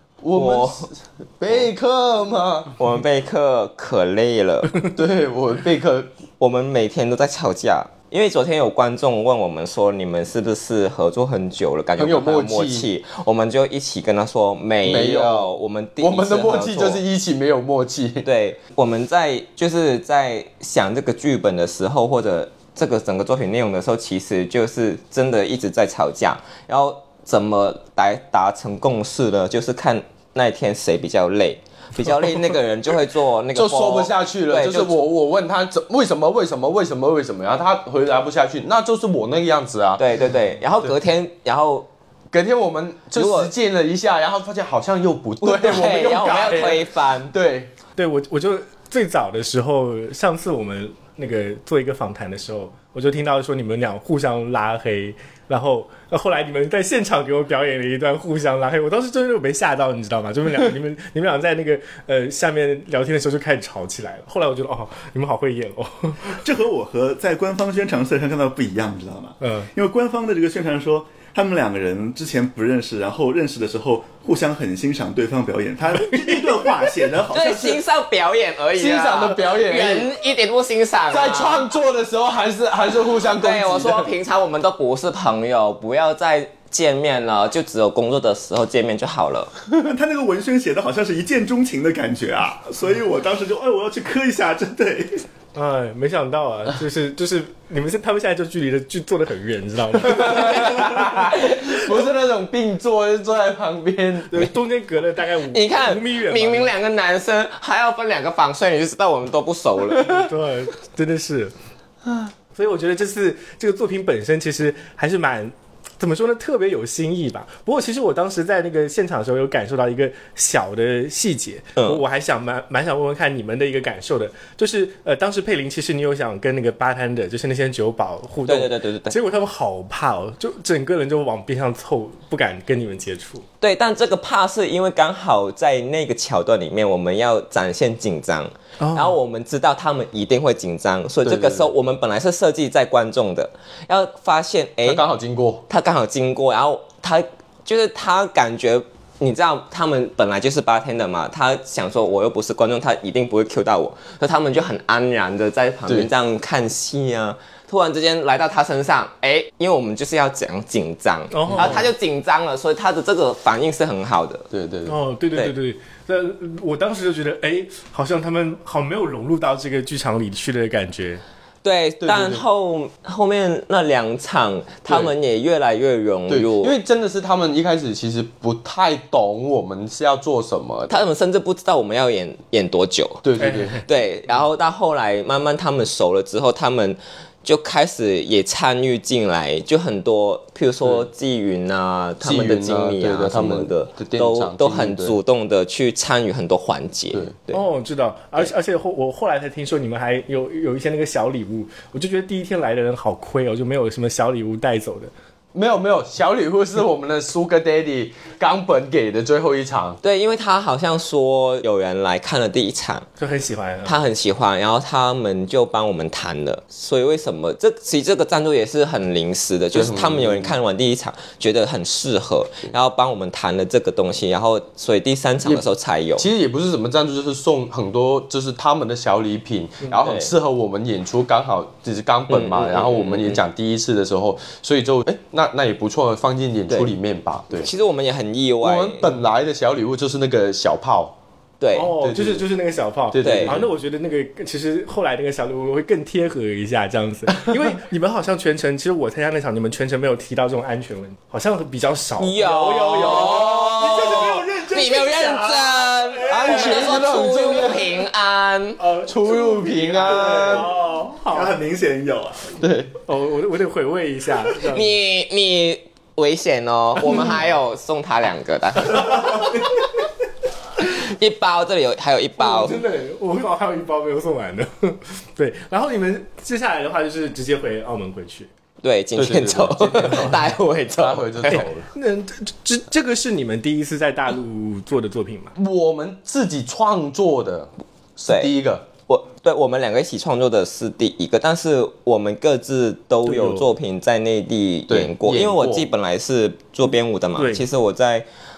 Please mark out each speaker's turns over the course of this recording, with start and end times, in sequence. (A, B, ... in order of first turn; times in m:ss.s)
0:00.2-0:02.8 A
0:00.3-0:00.9 B
0:02.8-0:04.9 B
0:04.8-0:06.1 A
0:06.4-0:17.0 B
0:12.0-0:12.9 A
0:14.8-0:18.3 A
0:18.2-0:35.0 B
0:33.5-0:40.0 A
0:40.0-0:41.9 B
0:42.3-0:47.7 A
0:43.1-0:43.5 B
0:45.4-0:47.3 B
0:48.0-1:06.4 C
1:06.3-1:17.8 D
1:09.4-1:09.7 C
1:17.3-1:21.7 B
1:18.7-1:20.1 A
1:21.1-1:24.1 A
1:23.2-1:29.5 B
1:29.8-1:35.2 D
1:35.5-1:41.1 C
1:40.1-1:44.5 A
1:44.3-1:46.7 C
1:45.5-1:50.3 B
1:50.0-1:51.5 C
1:52.5-2:13.4 C
2:08.5-2:09.2 B
2:13.6-2:25.0 B
2:18.8-2:19.1 C
2:21.2-2:21.7 A
2:24.8-2:25.6 A
2:25.7-2:44.5 B
2:41.3-2:41.8 C
2:41.5-2:41.8 A
2:44.5-2:45.0 A
2:44.8-2:51.2 C
2:51.6-2:56.7 B
2:52.0-2:52.4 A
2:54.9-2:55.1 A
2:56.3-3:01.0 A
3:00.9-3:03.2 B
3:03.2-3:03.8 A
3:03.4-3:03.8 C
3:03.8-3:17.6 B
3:12.2-3:15.2 A
3:17.5-3:25.1 C
3:25.5-3:30.0 A
3:30.0-3:33.0 B
3:33.2-3:34.0 C
3:33.8-3:46.3 B
3:39.7-3:40.5 A
3:46.2-3:57.7 A
3:49.9-3:50.3 B
3:52.3-3:53.4 B
3:57.6-3:59.1 B
3:58.6-4:01.2 A
4:01.6-4:01.9 B
4:01.7-4:14.3 C
4:02.0-4:02.4 A
4:03.1-4:03.7 A
4:03.2-4:03.6 B
4:12.2-4:18.8 B
4:13.2-4:16.2 D
4:16.2-4:18.0 A
4:16.3-4:16.8 C
4:18.8-4:21.5 C
4:19.0-4:20.7 A
4:20.2-4:22.5 D
4:22.6-4:22.9 A
4:23.0-4:25.0 C
4:24.7-4:29.7 B
4:29.2-4:29.6 D
4:30.8-4:32.8 B
4:32.4-4:38.5 C
4:38.8-4:41.6 B
4:39.2-4:41.9 A
4:41.9-4:45.5 C
4:45.6-4:48.8 A
4:49.1-4:58.2 B
4:53.2-4:53.7 C
4:54.9-4:55.9 A
4:57.4-4:57.6 C